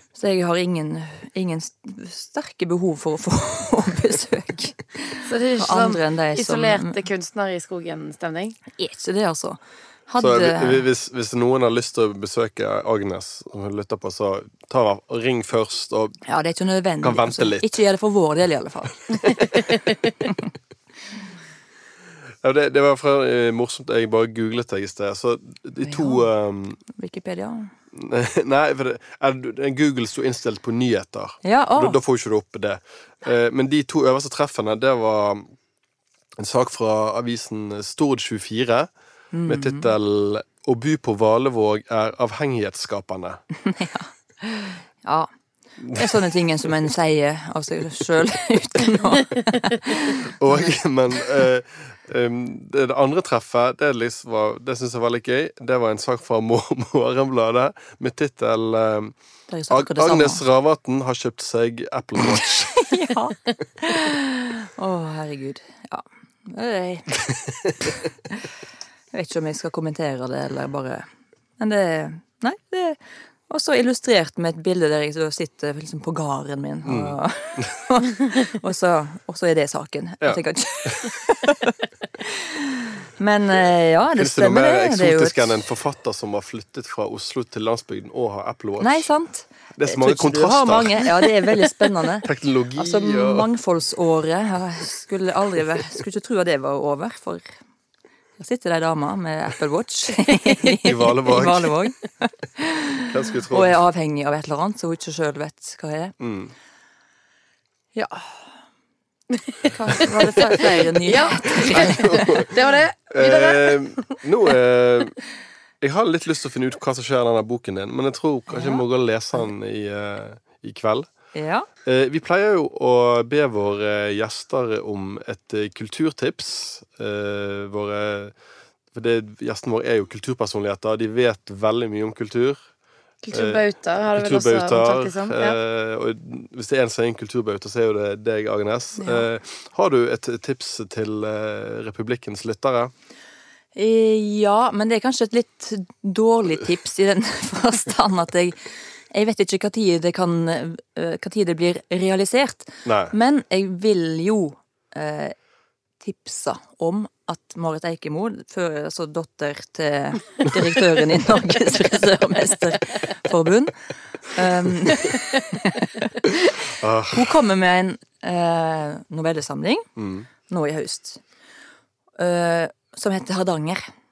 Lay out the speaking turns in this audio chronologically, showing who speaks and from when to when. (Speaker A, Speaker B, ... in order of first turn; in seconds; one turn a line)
Speaker A: 0.1-7.0
Speaker B: 5.2-8.6
Speaker A: 8.7-10.8
Speaker C: 10.2-16.2
Speaker A: 16.2-19.6
Speaker C: 17.0-17.8
Speaker C: 19.2-19.6
Speaker C: 22.4-26.8
Speaker A: 25.8-26.3
Speaker A: 26.9-27.7
Speaker C: 27.9-35.5
Speaker A: 31.4-32.0
Speaker C: 36.4-38.9
Speaker A: 39.3-39.9
Speaker C: 39.5-43.4
Speaker A: 43.6-45.3
Speaker C: 45.9-46.2
Speaker A: 45.9-50.3
Speaker C: 50.2-59.1
Speaker A: 59.5-60.4
Speaker C: 59.7-62.8
Speaker A: 62.8-67.2
Speaker A: 67.8-68.5
Speaker A: 69.1-71.1
Speaker A: 71.6-85.6
Speaker C: 76.8-77.7
Speaker C: 80.2-81.1
Speaker C: 84.2-89.1
Speaker A: 88.8-97.5
Speaker C: 89.7-91.3
Speaker C: 92.2-93.5
Speaker A: 98.4-106.2
Speaker C: 100.8-101.7
Speaker C: 103.1-103.8
Speaker C: 106.2-106.5
Speaker A: 107.9-108.5
Speaker A: 109.6-112.4
Speaker B: 111.0-114.1
Speaker C: 111.6-115.2
Speaker C: 115.8-121.1
Speaker A: 118.5-118.8
Speaker A: 121.3-121.7
Speaker C: 121.8-128.3
Speaker C: 128.9-132.6
Speaker B: 133.2-135.6
Speaker C: 133.3-142.9
Speaker A: 139.0-139.2
Speaker A: 143.7-155.3
Speaker C: 152.8-153.1
Speaker A: 156.0-169.9
Speaker C: 166.8-167.4
Speaker C: 170.0-170.3
Speaker A: 170.5-171.2
Speaker A: 172.2-173.8